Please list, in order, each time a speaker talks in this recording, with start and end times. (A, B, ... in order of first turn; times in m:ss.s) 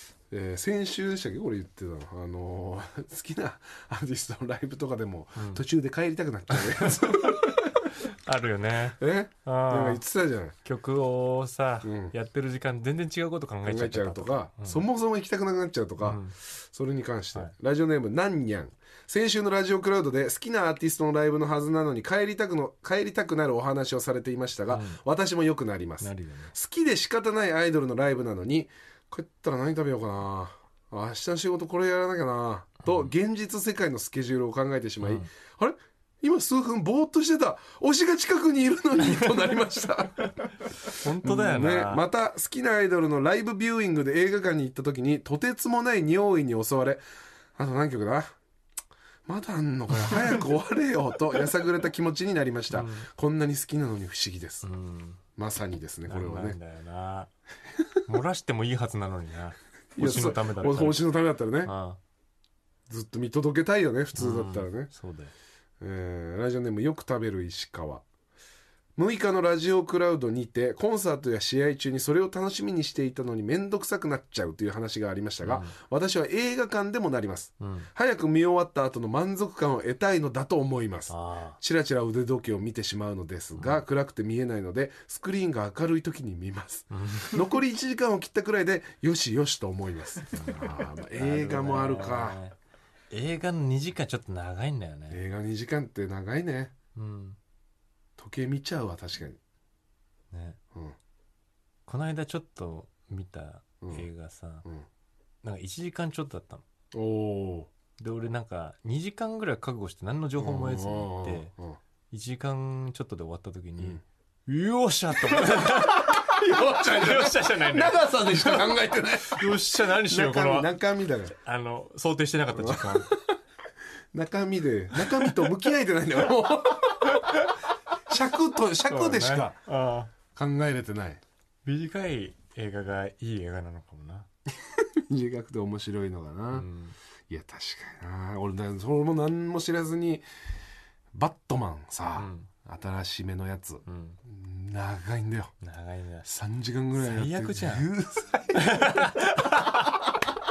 0:00.3-0:07.6 A
0:05.4-0:05.6 B
0:06.5-0:10.0 B
0:09.0-0:10.5 A
0:10.6-0:14.8 B
0:11.8-0:12.1 A
0:13.6-0:40.7 A
0:16.0-0:16.3 B
0:24.7-0:25.0 B
0:26.0-0:26.5 B
0:35.0-0:35.3 B
0:39.0-0:39.4 B
0:40.8-0:42.0 B
0:41.2-0:47.0 A
0:47.6-0:48.4 A
0:49.2-0:54.7 A
0:52.7-0:53.1 B
0:54.6-0:55.2 B
0:55.4-0:56.6 A
0:56.0-0:57.3 B
0:58.0-1:01.1 B
0:59.9-1:01.7 A
1:01.6-1:02.0 B
1:02.9-1:04.9 A
1:04.1-1:05.3 B
1:05.8-1:08.0 A
1:09.0-1:32.4 A
1:15.4-1:15.8 B
1:17.6-1:17.9 B
1:21.1-1:21.6 B
1:23.6-1:23.8 B
1:26.9-1:27.5 B
1:30.3-1:32.6 B
1:33.1-1:35.2 B
1:35.1-1:36.7 A
1:36.9-1:37.4 B
1:38.2-1:39.4 A
1:40.3-1:40.6 B
1:41.9-1:44.7 B
1:43.8-1:44.1 A
1:45.4-1:46.6 B
1:46.9-1:47.7 A
1:48.0-1:51.5 B
1:50.4-1:51.8 A
1:52.1-2:00.7 B
1:55.2-2:01.3 A
2:01.3-2:03.2 B
2:02.5-2:03.3 A
2:04.1-2:07.4 A
2:04.9-2:05.5 B
2:07.0-2:07.6 B
2:08.0-2:09.6 A
2:08.9-2:10.1 B
2:10.3-2:11.2 A
2:11.6-2:14.3 B
2:14.5-2:16.7 A
2:16.5-2:17.0 B
2:17.3-2:20.2 A
2:21.1-2:25.5 A
2:22.2-2:22.5 B
2:23.8-2:24.2 B
2:25.6-2:26.3 B
2:26.2-2:29.2 A
2:26.9-2:27.9 B
2:28.5-2:30.1 B